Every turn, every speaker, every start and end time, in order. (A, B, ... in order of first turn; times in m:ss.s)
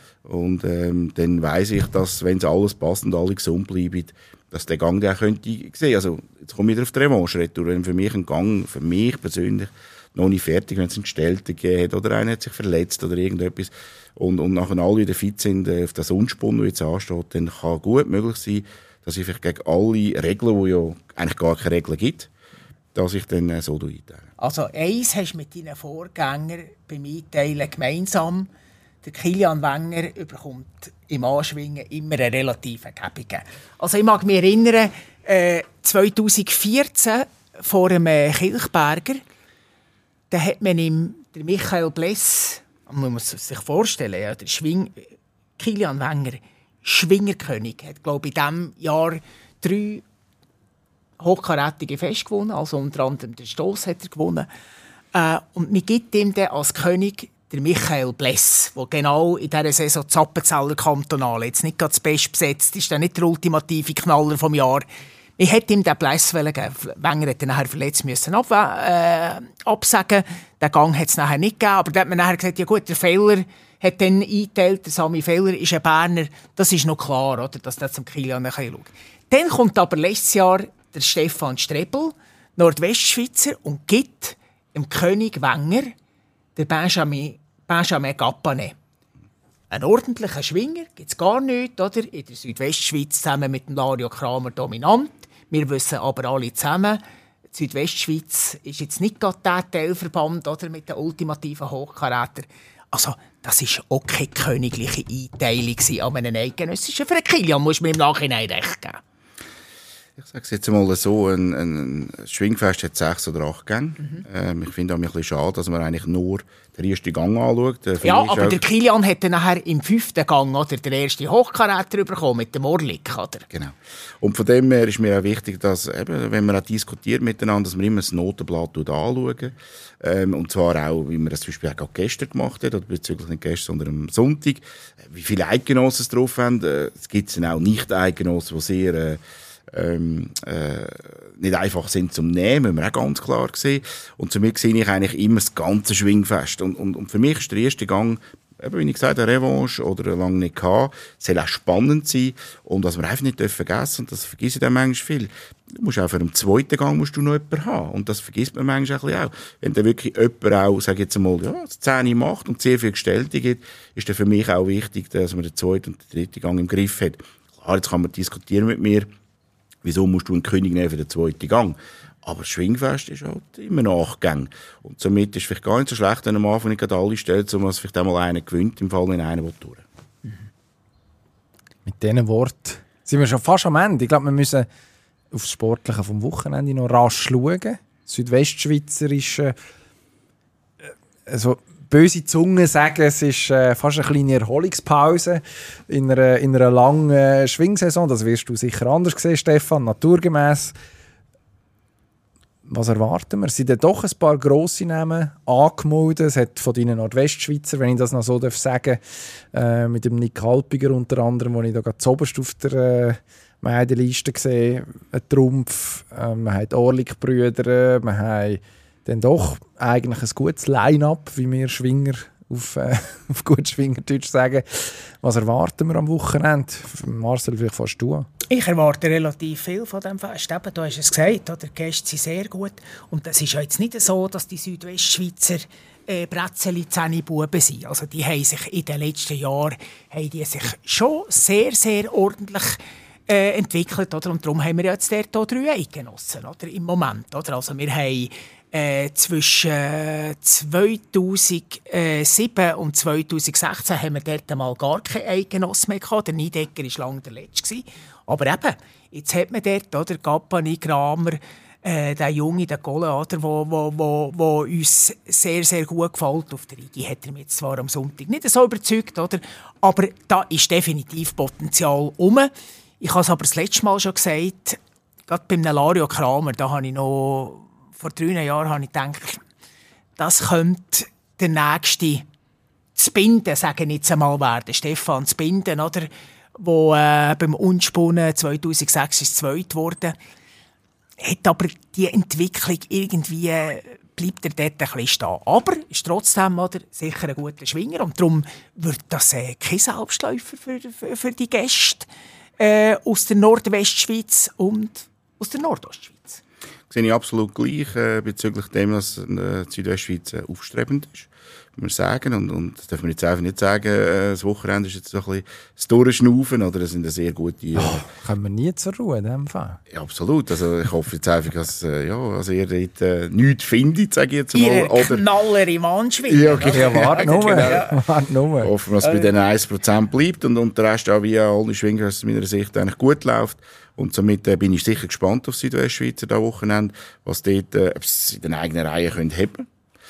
0:00.2-0:22.3 A
0:22.9-0:24.3 A
0:24.4-0:28.5 B
0:29.0-0:39.2 B
0:40.3-0:50.0 B
0:51.2-0:54.5 B
0:55.1-1:04.8 B
1:05.4-1:25.9 B
1:26.6-1:28.7 B
1:29.7-1:37.0 B
1:37.5-1:49.0 B
1:50.2-1:58.6 A
1:58.0-2:03.5 B
2:03.5-2:49.1 A
2:49.8-2:59.8 A
3:01.8-3:04.7 C
3:05.3-3:09.6 C
3:11.3-3:20.7 C
3:22.7-3:48.3 C
3:48.5-4:39.4 B
4:40.2-4:42.2 B
4:42.9-4:50.2 B
4:51.2-5:02.1 B
5:02.6-5:06.4 B
5:06.9-5:18.0 A
5:17.8-5:19.8 C
5:19.9-5:25.3 A
5:24.5-5:28.0 B
5:26.2-5:27.9 A
5:26.7-5:28.7 C
5:28.6-5:39.7 A
5:29.0-5:29.3 B